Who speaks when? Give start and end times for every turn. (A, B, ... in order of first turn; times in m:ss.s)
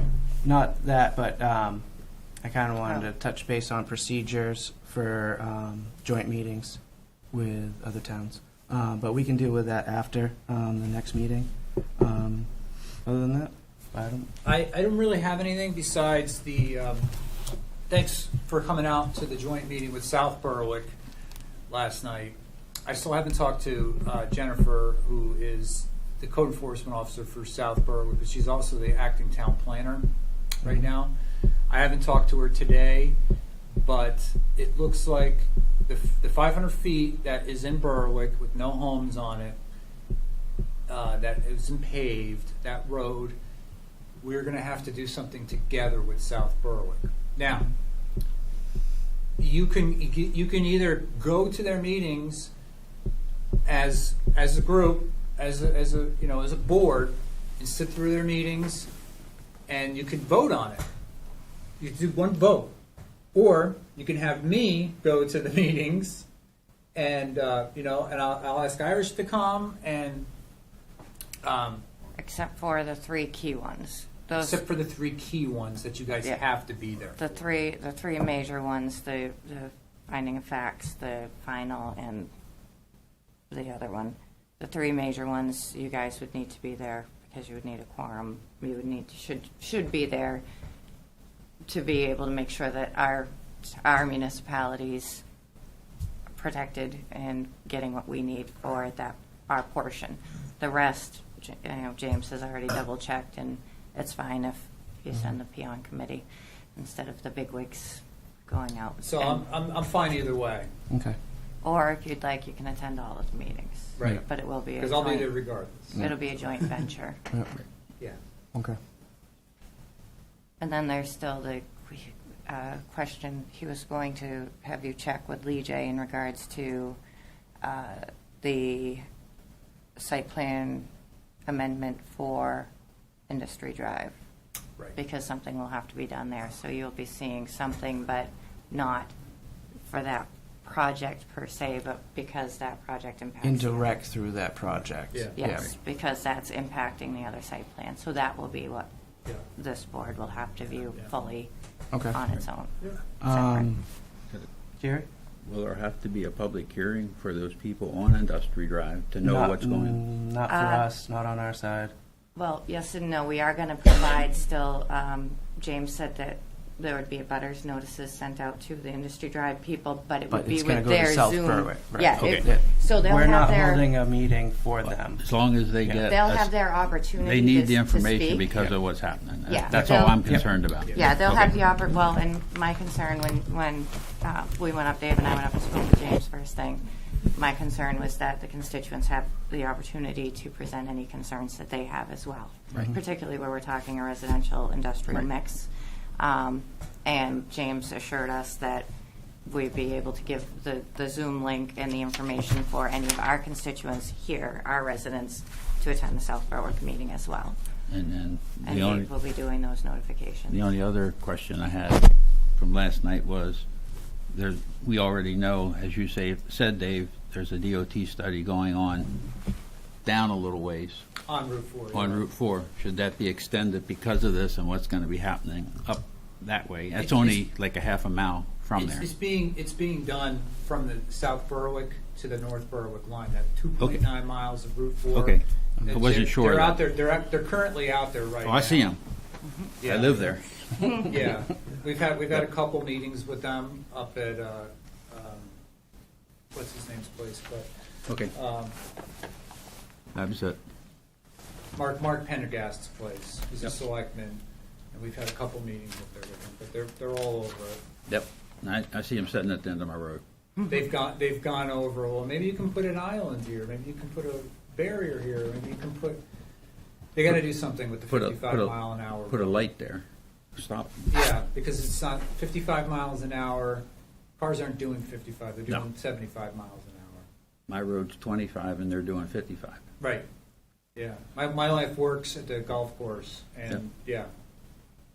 0:00.4-0:01.8 A
0:02.4-0:06.8 A
0:07.3-0:12.5 A
0:13.0-0:14.3 A
0:14.4-0:17.1 B
0:17.9-0:20.9 B
0:21.7-0:30.1 B
0:30.6-0:31.1 B
0:31.7-0:33.2 B
0:33.8-0:39.6 B
0:40.9-0:43.4 B
0:44.2-0:47.7 B
0:49.4-0:52.5 B
0:53.6-0:58.9 B
0:59.7-1:00.8 B
1:01.8-1:02.7 B
1:03.3-1:06.2 B
1:06.9-1:10.3 B
1:11.4-1:11.8 B
1:12.2-1:14.6 C
1:14.3-1:17.2 B
1:17.2-1:22.3 C
1:23.5-1:30.4 C
1:31.7-1:35.2 C
1:36.4-1:49.4 C
1:49.0-1:50.7 B
1:50.9-1:51.2 A
1:51.6-1:55.4 C
1:54.0-1:54.2 B
1:54.8-1:56.1 B
1:55.9-1:57.2 C
1:57.3-1:57.6 A
2:00.6-2:07.0 C
2:07.6-2:09.0 C
2:10.0-2:10.9 C
2:11.5-2:12.7 C
2:13.3-2:14.1 C
2:14.9-2:19.1 C
2:19.8-2:24.0 C
2:23.4-2:25.7 A
2:25.3-2:28.9 C
2:29.5-2:31.5 C
2:31.9-2:32.2 A
2:32.0-2:33.7 C
2:33.2-2:33.9 A
2:34.8-2:35.1 A
2:35.4-2:40.0 D
2:39.2-2:41.9 A
2:40.5-2:40.9 C
2:42.3-2:53.9 C
2:50.3-2:55.2 A
2:52.2-2:52.4 D
2:54.8-2:56.5 D
2:56.1-2:58.5 C
2:57.0-3:01.6 D
2:59.5-3:00.2 C
2:59.7-3:00.4 A
3:00.8-3:01.1 B
3:00.9-3:18.9 C
3:19.4-3:27.6 C
3:27.9-3:29.1 D
3:28.6-3:30.7 C
3:30.5-3:32.0 D
3:32.6-3:33.6 D
3:34.3-3:39.1 D
3:40.0-3:41.0 D
3:41.2-3:42.2 B
3:41.9-3:49.1 D
3:47.0-3:47.4 B
3:48.8-3:58.9 B
3:55.1-3:56.8 D
3:58.4-3:59.0 D
3:59.4-3:59.7 C
3:59.8-4:00.3 B
3:59.8-4:01.0 D
4:01.0-4:05.5 B
4:06.5-4:07.7 B
4:08.3-4:08.7 B
4:10.1-4:10.6 D
4:11.7-4:14.4 B
4:14.9-4:17.8 B
4:18.1-4:20.2 D
4:20.7-4:26.2 B
4:27.1-4:29.6 B
4:28.1-4:30.0 D
4:30.6-4:31.1 D
4:31.1-4:33.8 B
4:34.4-4:37.2 B
4:37.7-4:39.8 D
4:41.0-4:44.3 B